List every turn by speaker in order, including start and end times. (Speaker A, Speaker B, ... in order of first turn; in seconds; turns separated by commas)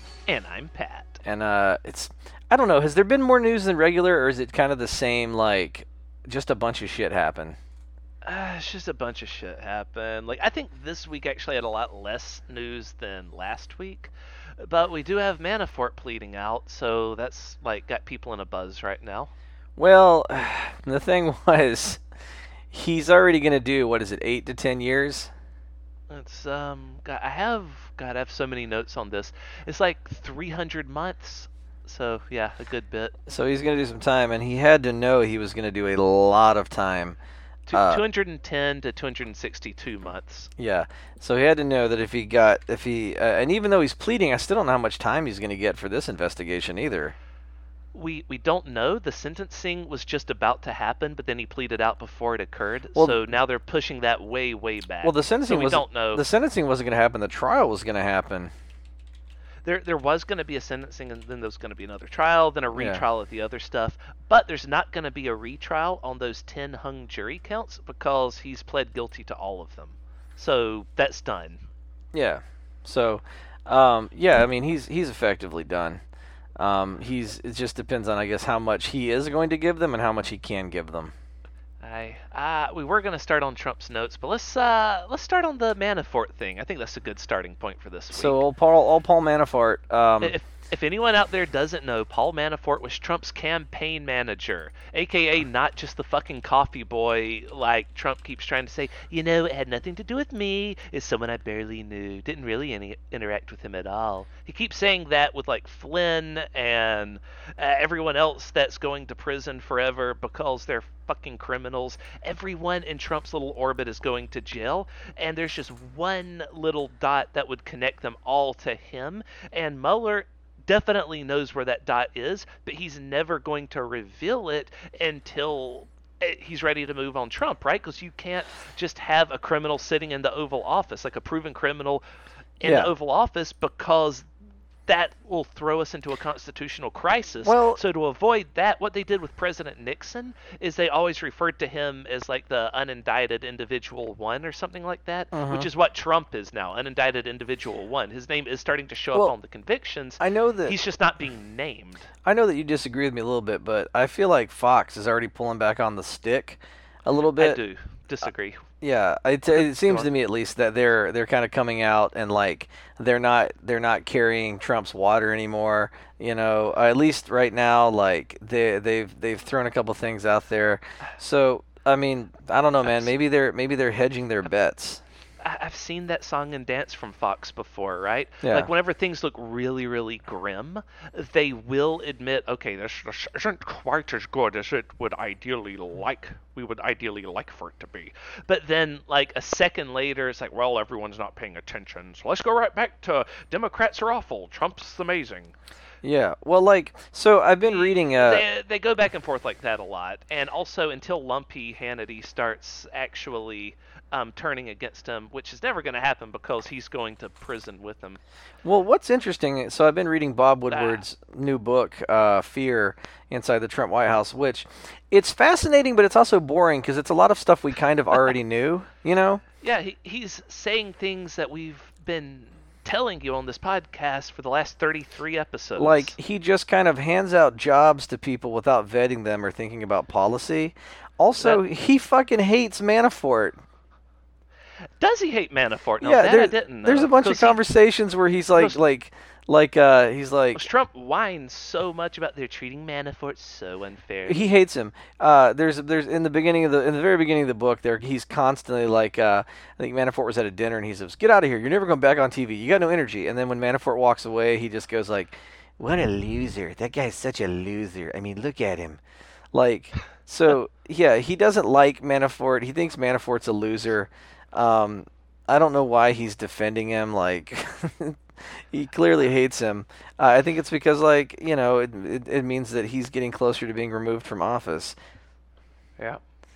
Speaker A: 0.3-1.2, Speaker B: 1.2-7.6, Speaker A: 8.2-19.3, Speaker B: 19.8-22.0, Speaker B: 22.7-25.3, Speaker A: 26.1-33.1, Speaker B: 33.3-37.2, Speaker A: 37.7-40.5, Speaker B: 37.7-38.0, Speaker B: 40.6-47.1, Speaker A: 47.9-56.2, Speaker B: 55.0-58.5, Speaker A: 59.6-71.6, Speaker B: 62.7-63.0, Speaker B: 72.1-76.0, Speaker B: 76.6-81.1, Speaker A: 81.8-88.4, Speaker B: 88.1-90.3, Speaker A: 90.2-132.0, Speaker A: 132.6-134.2, Speaker B: 132.6-132.9, Speaker A: 134.9-152.1, Speaker B: 137.4-137.8, Speaker B: 145.3-145.7, Speaker B: 150.2-150.8, Speaker B: 152.2-157.6, Speaker A: 157.4-158.6, Speaker B: 158.8-175.0, Speaker A: 159.5-160.1, Speaker A: 172.8-173.1, Speaker A: 175.4-195.5, Speaker B: 178.4-178.7, Speaker B: 196.0-198.4, Speaker A: 197.6-208.2, Speaker B: 208.6-219.4, Speaker A: 210.7-211.0, Speaker A: 219.6-226.1, Speaker B: 225.8-233.6, Speaker A: 235.0-237.6, Speaker B: 236.0-240.6, Speaker A: 240.5-244.4, Speaker B: 244.2-259.0, Speaker B: 259.5-274.9